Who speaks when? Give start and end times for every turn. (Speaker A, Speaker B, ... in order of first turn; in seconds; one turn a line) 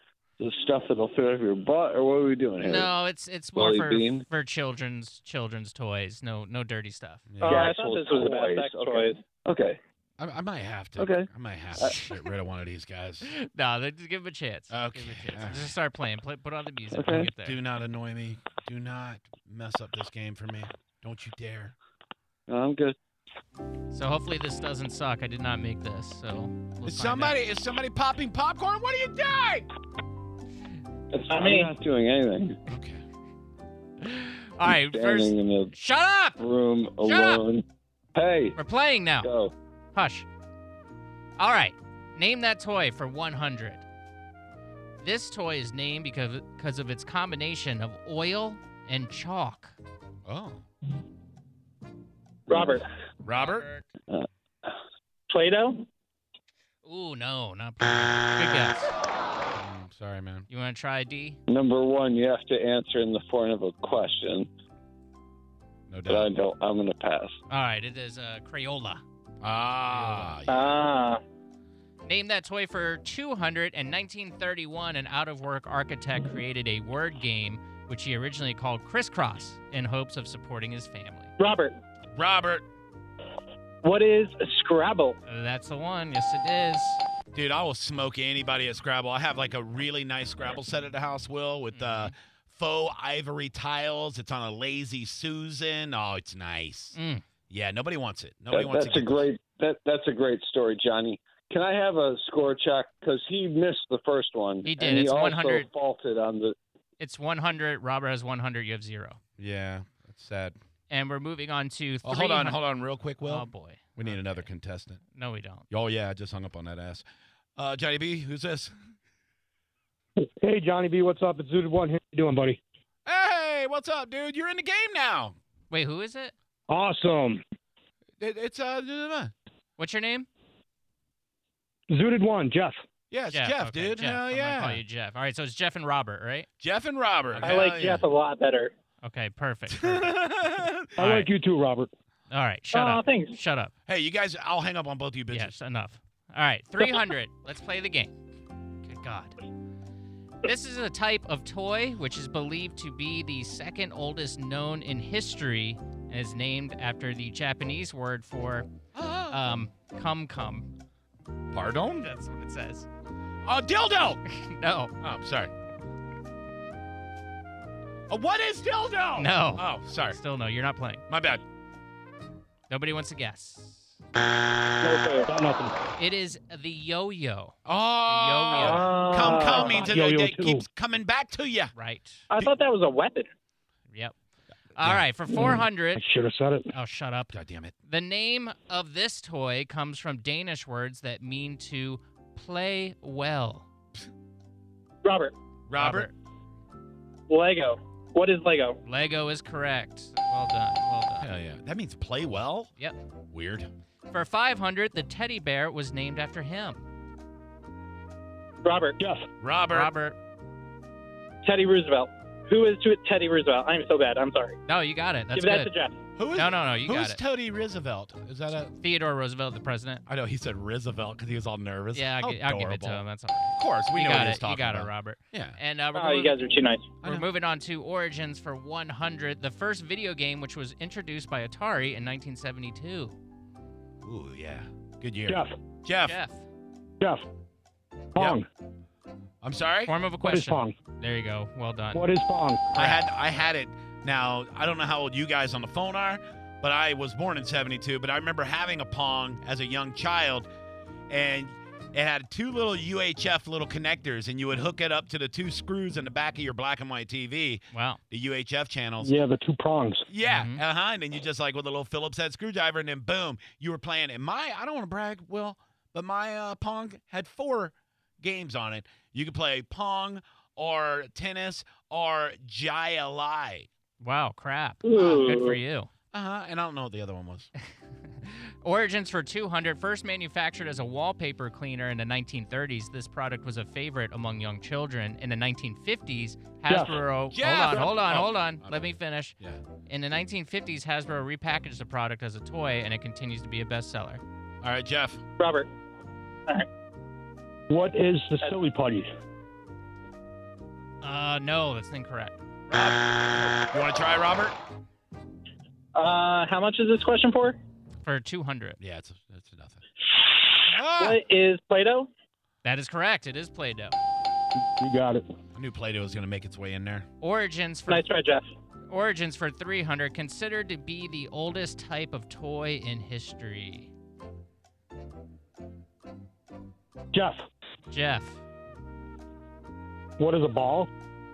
Speaker A: 0.4-2.9
Speaker B: 2.6-7.3
Speaker A: 3.5-4.2
Speaker C: 7.3-7.7
Speaker D: 7.4-9.2
Speaker A: 7.5-9.8
Speaker C: 10.2-13.3
Speaker A: 11.0-11.9
Speaker B: 13.3-17.6
Speaker C: 14.7-15.7
Speaker A: 16.9-17.3
Speaker C: 17.3-21.7
Speaker A: 22.5-23.0
Speaker B: 23.9-27.4
Speaker C: 26.8-29.7
Speaker A: 31.1-32.6
Speaker D: 31.3-31.7
Speaker C: 32.7-33.0
Speaker B: 34.0-36.4
Speaker A: 34.6-35.7
Speaker A: 36.4-38.6
Speaker B: 37.0-37.4
Speaker B: 38.6-39.3
Speaker A: 39.2-39.5
Speaker B: 39.9-40.2
Speaker B: 41.4-43.8
Speaker B: 45.0-49.7
Speaker C: 50.2-50.6
Speaker D: 52.5-52.8
Speaker A: 52.5-52.8
Speaker C: 53.2-53.6
Speaker B: 53.3-53.9
Speaker D: 55.3-55.9
Speaker B: 56.8-58.9
Speaker C: 59.5-60.5
Speaker B: 60.5-61.4
Speaker A: 61.5-64.5
Speaker C: 65.9-66.3
Speaker A: 66.1-67.3
Speaker B: 67.5-69.0
Speaker C: 69.4-70.8
Speaker B: 69.9-70.4
Speaker D: 70.5-71.2
Speaker B: 72.0-81.3
Speaker D: 81.4-81.7
Speaker C: 82.2-82.6
Speaker D: 83.8-85.2
Speaker B: 85.3-87.0
Speaker C: 87.3-97.0
Speaker B: 91.7-92.1
Speaker B: 96.9-97.2
Speaker C: 97.5-99.3
Speaker A: 98.5-106.5
Speaker B: 104.6-105.7
Speaker B: 107.0-109.2
Speaker C: 109.4-110.6
Speaker B: 110.9-112.6
Speaker C: 112.0-115.0
Speaker B: 113.2-114.5
Speaker B: 115.1-115.7
Speaker C: 115.7-117.0
Speaker C: 117.6-118.7
Speaker E: 120.2-122.6
Speaker C: 123.0-125.3
Speaker B: 125.7-126.3
Speaker E: 126.7-127.4
Speaker C: 128.2-129.3
Speaker B: 129.8-130.3
Speaker E: 131.9-132.8
Speaker C: 133.1-134.8
Speaker B: 133.3-136.5
Speaker C: 136.6-138.0
Speaker B: 137.4-137.8
Speaker D: 137.4-138.7
Speaker B: 139.0-141.3
Speaker C: 139.7-141.0
Speaker E: 141.0-141.9
Speaker B: 142.3-143.7
Speaker D: 142.7-143.4
Speaker C: 143.9-145.6
Speaker B: 145.3-148.1
Speaker B: 148.8-149.4
Speaker B: 150.4-158.7
Speaker C: 158.9-159.4
Speaker B: 159.3-160.7
Speaker C: 161.5-162.1
Speaker B: 162.0-162.8
Speaker C: 163.4-164.2
Speaker B: 164.2-164.9
Speaker C: 165.0-165.5
Speaker C: 168.1-170.2
Speaker B: 169.2-171.1
Speaker C: 171.1-171.4
Speaker B: 172.7-173.9
Speaker D: 174.8-175.3
Speaker E: 175.2-175.7
Speaker B: 176.0-179.0
Speaker C: 177.6-181.7
Speaker D: 178.6-179.9
Speaker E: 179.4-180.6
Speaker B: 181.7-182.2
Speaker D: 182.3-183.3
Speaker B: 184.8-186.0
Speaker C: 184.8-185.1
Speaker E: 185.3-186.7
Speaker B: 186.7-187.3
Speaker C: 187.3-187.7
Speaker B: 187.8-193.7
Speaker D: 195.0-195.3
Speaker C: 195.7-196.1
Speaker B: 195.8-196.1
Speaker D: 197.3-198.8
Speaker B: 198.8-201.3
Speaker C: 201.2-202.7
Speaker C: 203.3-203.7
Speaker B: 204.1-206.8
Speaker D: 208.6-209.0
Speaker E: 209.0-209.3
Speaker C: 209.4-209.9
Speaker B: 209.7-210.2
Speaker D: 211.4-214.6
Speaker B: 214.7-215.7
Speaker D: 215.3-216.0
Speaker C: 216.2-218.7
Speaker B: 216.3-217.2
Speaker B: 218.8-220.0
Speaker C: 220.1-223.0
Speaker B: 221.9-233.2
Speaker C: 223.6-225.6
Speaker D: 225.9-226.9
Speaker C: 227.0-227.3
Speaker C: 234.0-236.2
Speaker E: 235.3-235.6
Speaker B: 236.0-236.4
Speaker E: 238.1-238.5
Speaker C: 239.4-239.9
Speaker B: 239.9-242.1
Speaker E: 240.2-240.7
Speaker E: 241.9-242.7
Speaker C: 242.7-250.5
Speaker B: 242.8-243.0
Speaker C: 251.1-259.1
Speaker B: 257.7-258.0
Speaker E: 259.0-260.1
Speaker C: 260.1-273.7
Speaker B: 260.2-260.6
Speaker B: 274.0-275.9
Speaker D: 274.8-275.6
Speaker C: 276.1-277.5
Speaker B: 278.2-294.2
Speaker E: 286.7-287.0
Speaker C: 287.3-289.6
Speaker C: 294.6-295.2
Speaker D: 295.4-295.7
Speaker E: 297.7-299.1
Speaker B: 301.0-302.4
Speaker C: 302.7-304.6
Speaker D: 305.9-307.6
Speaker B: 308.0-308.8
Speaker C: 308.8-309.8
Speaker C: 310.6-311.2
Speaker D: 310.9-312.1
Speaker B: 312.6-314.0
Speaker E: 314.8-315.2
Speaker C: 315.5-317.1
Speaker B: 317.2-318.1
Speaker D: 317.9-318.5
Speaker B: 318.9-323.9
Speaker E: 327.1-327.4
Speaker B: 327.9-328.4
Speaker E: 330.2-330.9